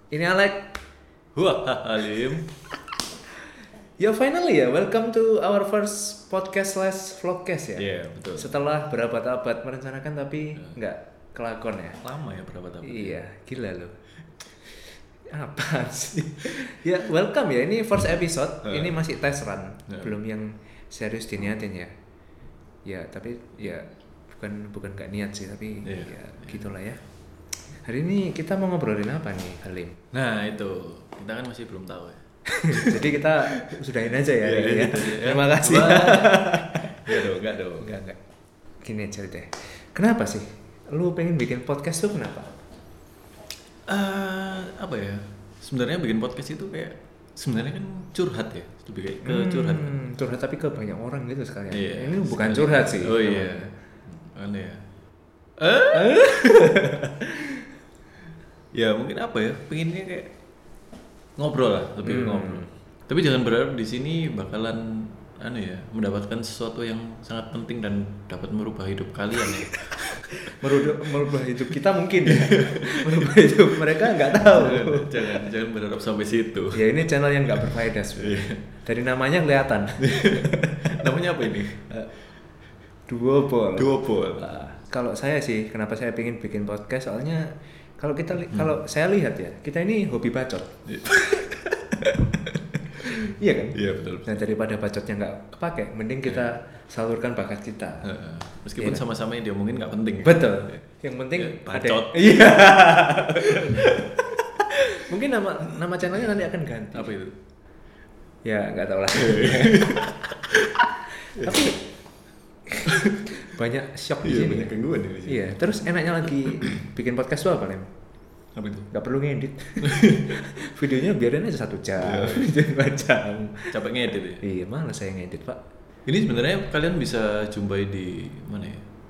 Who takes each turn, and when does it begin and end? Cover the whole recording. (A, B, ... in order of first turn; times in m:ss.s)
0:00.1-0:00.8 A
0:01.3-0:02.5 B
0:04.0-0:12.0 A
0:07.8-0:08.5 B
0:12.0-0:13.2 B
0:12.8-0:14.0 A
0:14.6-0:21.9 A
0:18.6-0:19.0 B
0:19.9-0:20.1 B
0:22.8-0:27.0 A
0:25.8-0:26.6 B
0:27.6-0:30.0 A
0:30.1-0:33.1 B
0:32.5-0:37.3 A
0:34.3-0:37.9 B
0:37.8-0:38.2 A
0:38.8-0:42.6 A
0:43.9-0:50.0 B
0:49.2-0:53.7 A
0:51.7-0:54.8 B
0:55.6-0:56.7 B
0:55.9-0:57.5 A
0:58.7-1:00.3 B
1:01.4-1:11.3 B
1:02.0-1:02.7 A
1:09.7-1:15.4 A
1:12.2-1:13.3 B
1:14.0-1:17.0 B
1:16.7-1:20.9 A
1:18.1-1:18.6 B
1:20.0-1:21.8 B
1:21.8-1:22.1 A
1:23.1-1:31.5 A
1:23.8-1:24.5 B
1:30.9-1:32.1 B
1:32.9-1:38.1 A
1:33.7-1:34.4 B
1:38.0-1:40.8 B
1:40.2-1:47.1 A
1:41.3-1:44.5 B
1:46.9-1:47.4 B
1:48.4-1:50.1 A
1:49.1-1:50.8 B
1:51.2-1:51.8 A
1:51.4-1:51.8 B
1:52.8-1:57.9 A
1:52.8-1:53.2 B
1:54.2-1:56.7 B
1:58.5-1:58.9 B
1:58.9-2:03.8 A
1:59.8-2:00.4 B
2:02.0-2:02.5 B
2:03.7-2:04.4 B
2:04.4-2:05.6 A
2:06.0-2:08.9 B